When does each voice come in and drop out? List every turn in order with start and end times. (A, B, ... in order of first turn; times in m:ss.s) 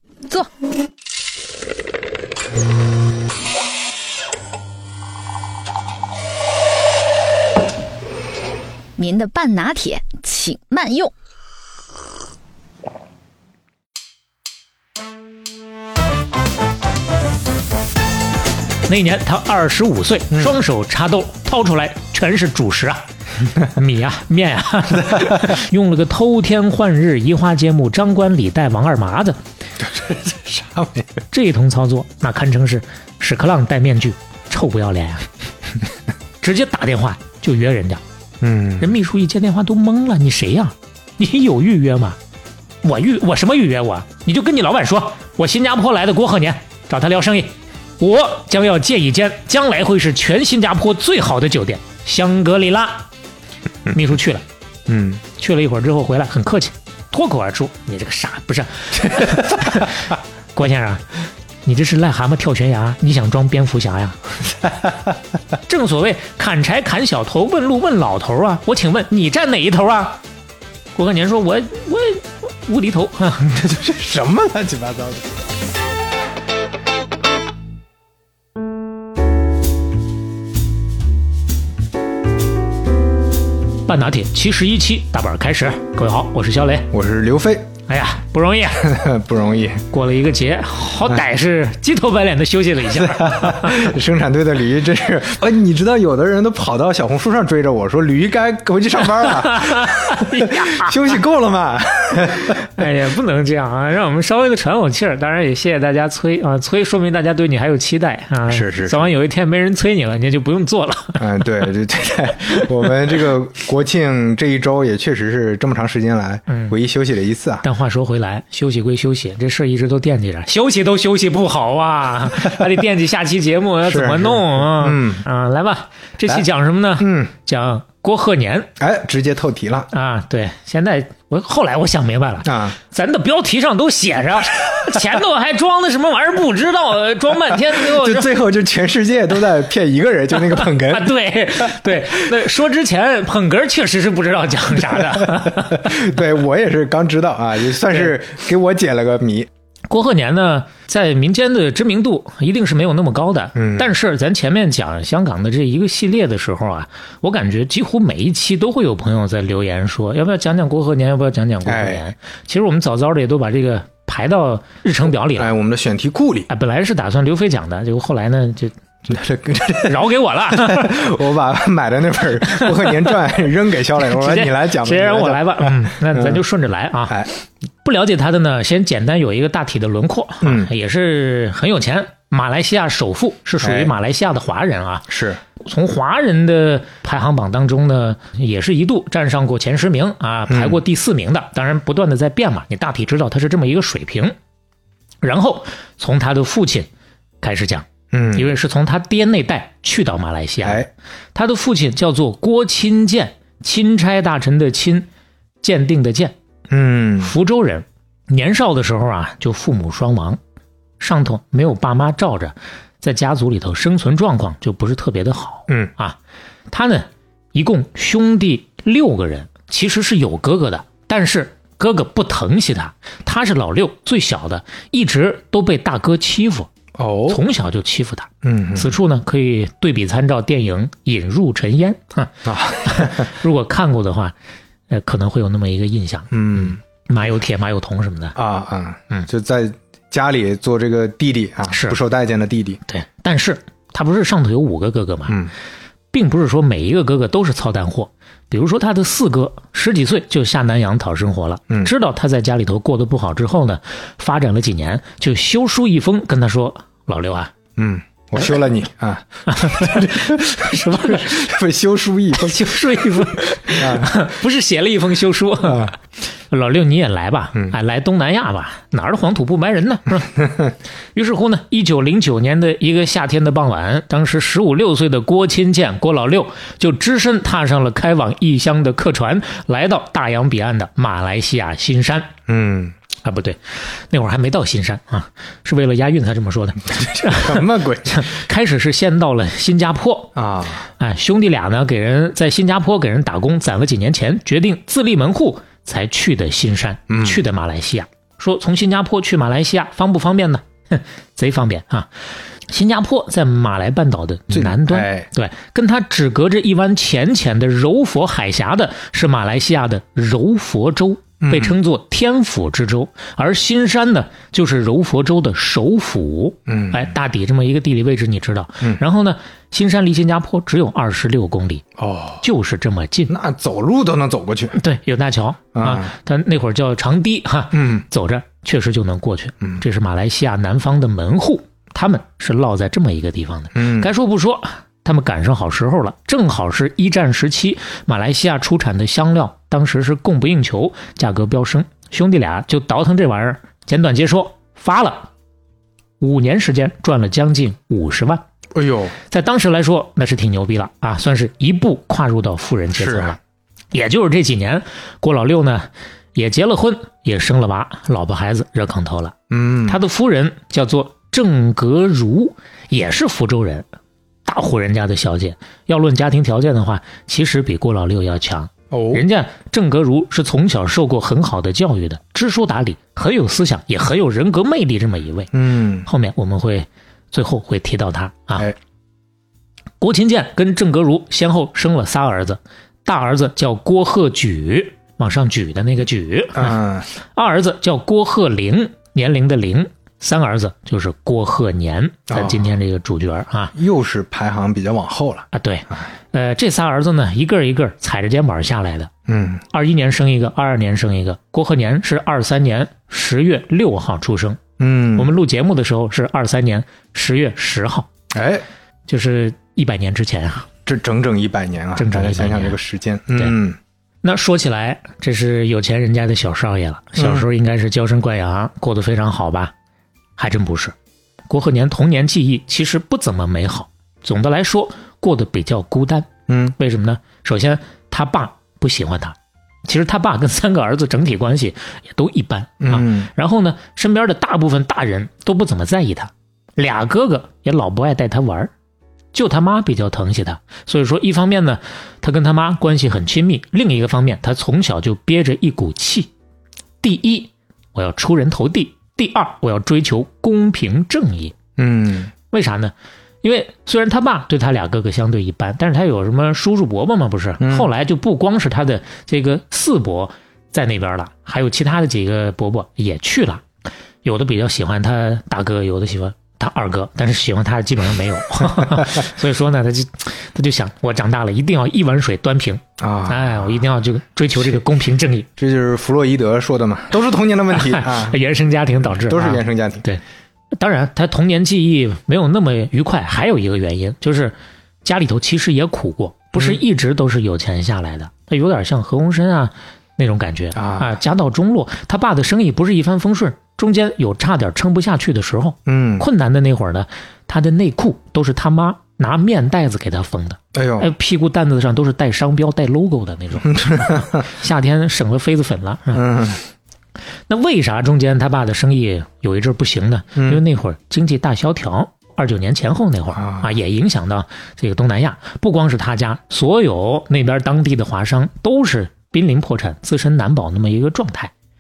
0:09.0-0:11.1 A
0:18.9-0:23.0 B
0:23.6-0:29.4 B
0:29.8-0:31.2 C
0:31.3-0:35.3 B
0:36.4-0:38.0 B
0:38.4-0:38.9 C
0:38.8-0:42.2 B
0:42.8-0:53.1 B
0:53.9-0:54.4 B
0:54.9-0:55.2 C
0:55.3-1:04.2 B
0:59.2-0:59.5 C
1:04.6-1:04.9 C
1:05.7-1:10.2 B
1:11.0-1:13.5 B
1:13.4-1:15.4 C
1:23.9-1:26.9 B
1:26.9-1:27.7 C
1:27.9-1:28.9 B
1:28.8-1:29.8 C
1:29.9-1:33.9 B
1:32.9-1:42.7 C
1:39.2-1:41.0 B
1:42.6-1:51.4 B
1:48.5-1:49.0 C
1:51.2-1:57.6 C
1:56.5-1:56.8 B
1:57.6-2:08.7 B
2:03.8-2:05.3 C
2:07.0-2:07.3 C
2:08.8-2:09.9 C
2:09.9-2:18.4 B
2:12.4-2:12.8 C
2:17.6-2:21.1 C
2:20.5-2:26.1 B
2:25.0-2:29.5 C
2:29.9-2:45.5 B
2:33.6-2:33.9 C
2:41.6-2:42.0 C
2:45.3-2:46.5 C
2:46.5-2:48.7 B
2:49.1-2:56.4 C
2:49.8-2:51.0 B
2:52.5-2:53.2 B
2:54.1-2:57.2 B
2:57.8-3:14.4 B
3:00.4-3:00.7 C
3:03.6-3:03.9 C
3:05.1-3:05.4 C
3:10.5-3:10.8 C
3:15.2-3:16.9 B
3:17.4-3:20.8 B
3:18.1-3:18.5 C
3:20.6-3:20.9 C
3:21.4-3:25.1 B
3:25.6-3:26.4 B
3:26.7-3:27.3 C
3:27.2-3:30.4 B
3:31.0-3:36.2 B
3:36.7-3:46.7 B
3:47.0-3:47.4 C
3:47.3-3:54.4 B
3:48.4-3:48.9 C
3:52.4-3:53.3 C
3:54.9-3:58.4 B
3:56.3-3:56.8 C
3:58.4-4:02.8 C
4:01.7-4:02.0 B
4:02.9-4:05.4 B
4:05.3-4:05.5 C
4:06.1-4:17.5 B
4:17.8-4:22.8 C
4:19.5-4:21.4 B
4:22.3-4:30.4 B
4:23.7-4:24.3 C
4:25.6-4:25.9 C
4:31.1-4:42.3 B
4:42.5-4:43.0 C
4:43.2-4:50.3 B
4:46.9-4:48.3 C
4:50.4-4:50.8 C
4:50.9-5:02.1 B
4:57.1-4:57.4 C
5:02.7-5:21.9 B
5:04.5-5:05.3 C
5:11.4-5:11.8 C
5:16.7-5:17.1 C
5:22.0-5:22.4 C
5:22.4-5:23.3 B
5:23.3-5:24.8 C
5:24.7-5:45.3 B
5:25.8-5:26.1 C
5:27.7-5:28.0 C
5:33.8-5:34.1 C
5:46.2-5:48.4 B
5:48.7-5:49.2 C
5:49.3-5:53.4 B
5:52.9-5:53.4 C
5:53.9-5:59.4 B
5:59.5-6:00.0 C
5:59.9-6:03.8 B
6:04.5-6:15.5 B
6:08.9-6:09.2 C
6:15.5-6:16.1 C
6:16.1-6:18.7 B
6:20.0-6:33.7 B
6:26.6-6:27.1 C
6:32.3-6:32.7 C
6:33.7-6:36.0 C
6:35.5-6:39.1 B
6:39.3-6:39.6 C
6:39.7-6:44.6 B
6:44.8-6:45.3 C
6:45.2-6:48.1 B
6:48.3-6:48.6 C
6:49.1-6:50.7 B
6:50.9-6:53.8 C
6:52.0-6:52.8 B
6:54.2-6:59.7 B
6:57.2-6:57.4 C
7:00.4-7:01.0 B
7:01.5-7:18.7 B
7:06.5-7:06.8 C
7:12.8-7:13.3 C
7:19.3-7:26.3 B
7:27.0-7:31.6 B
7:31.8-7:32.3 C
7:32.5-7:43.7 B
7:37.6-7:37.9 C
7:44.2-7:55.5 B
7:53.0-7:53.8 C
7:55.6-7:58.4 C
7:57.7-8:00.2 B
7:59.0-8:00.1 C
8:00.7-8:26.2 B
8:10.8-8:11.2 C
8:15.9-8:16.3 C
8:20.7-8:21.1 C
8:23.7-8:24.4 C
8:26.1-8:26.6 C
8:27.5-8:41.5 B
8:30.4-8:30.6 C
8:33.4-8:33.7 C